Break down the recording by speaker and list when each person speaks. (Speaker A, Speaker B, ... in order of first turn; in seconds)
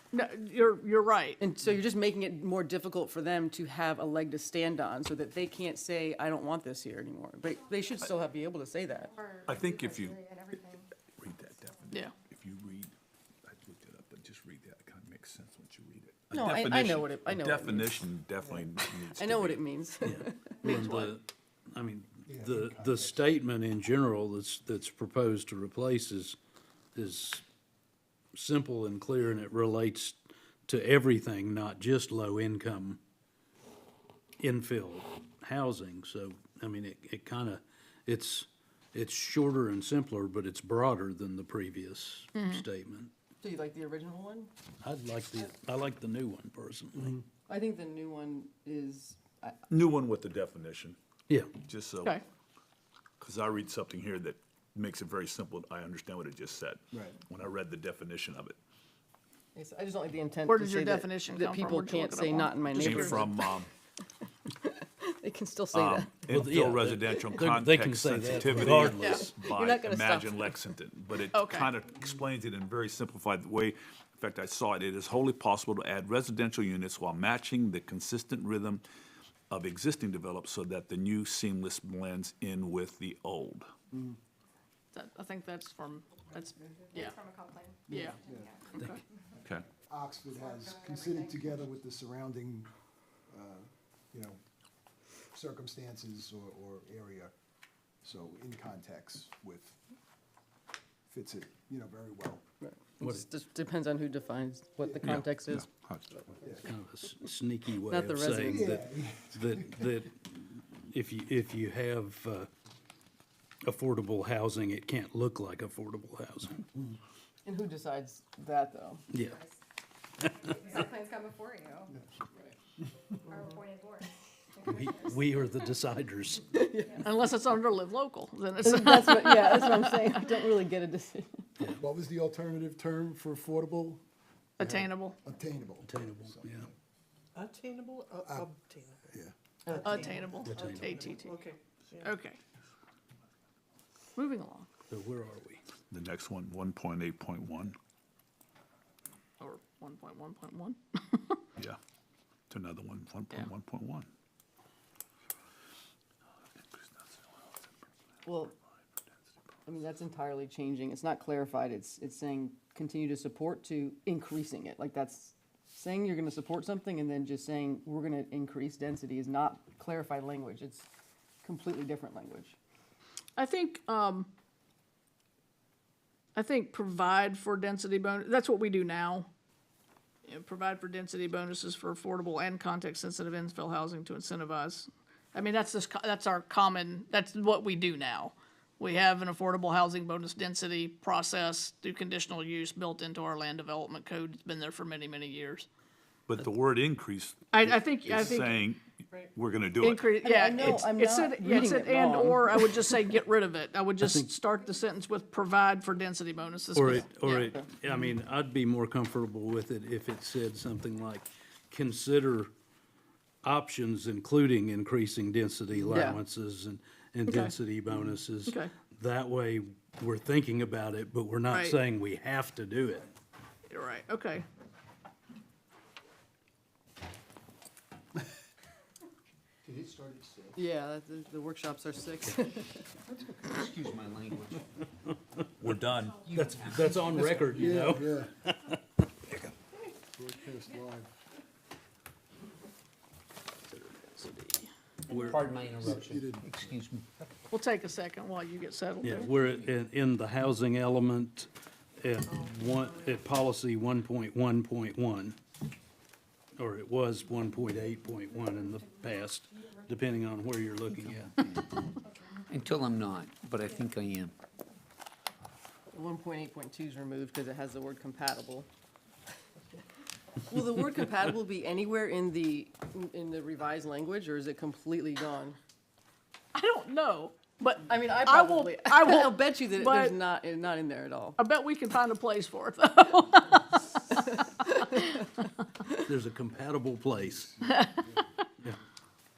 Speaker A: 0.1-1.4, 42.3-42.6, 60.5-63.3, 69.0-69.2, 71.3-71.7, 84.9-87.3, 87.9-88.2, 127.0-130.1, 134.6-135.2, 139.8-142.4, 144.2-144.7, 149.4-151.4, 173.4-174.3, 176.3-179.3, 180.2-195.7, 197.5-198.6, 199.8-207.6, 217.3-217.5, 218.5-218.7, 221.5-221.8, 223.7-224.4, 243.7-244.7, 247.5-249.3, 276.5-280.1, 281.4-285.4, 287.6-288.0
Speaker B: 1.4-9.2, 16.3-18.1, 18.8-21.1, 43.4-44.5, 47.5-49.6, 59.5-63.5, 64.5-66.1, 69.4-70.6, 102.6-105.7, 107.9-108.8, 117.4-119.0, 126.6-127.0, 128.6-131.4, 139.7-140.3, 158.2-158.5, 159.7-170.9, 171.4-172.6, 200.2-202.6, 215.8-216.2, 230.6-232.8, 265.9-268.7, 270.4-275.6, 277.9-281.4
Speaker C: 9.4-10.7, 87.2-87.8, 120.5-121.9, 123.3-124.1
Speaker D: 9.4-19.6, 49.7-51.0, 51.6-52.2, 53.2-58.6, 62.7-63.7, 65.7-78.8, 79.5-83.7, 105.0-106.3, 145.9-147.8, 152.5-154.1, 196.3-200.1, 235.6-236.4
Speaker E: 20.0-26.4, 26.9-27.4, 28.3-33.0, 34.4-43.1, 44.8-47.2, 51.3-51.5, 66.2-69.3, 106.6-112.5, 113.6-116.7, 119.1-119.4, 120.2-120.7, 124.6-126.8, 135.8-136.7, 140.4-141.0, 144.9-145.6, 204.0-204.3, 206.7-212.5, 213.4-223.1, 236.3-239.5, 245.1-245.4, 249.0-255.4, 256.6-261.4, 286.1-287.6
Speaker F: 22.3-23.2, 56.9-57.2, 83.9-84.2, 87.9-88.6, 89.7-92.7, 93.3-94.4, 95.3-97.3, 98.0-99.8, 101.1-102.4, 104.8-105.2, 106.4-106.7, 108.4-109.8, 131.7-134.0, 134.6-136.7, 138.2-138.5, 237.5-238.3, 240.2-241.1, 245.8-246.7, 287.3-288.3
Speaker G: 233.5-234.5, 236.3-237.4, 245.3-247.0, 262.5-264.3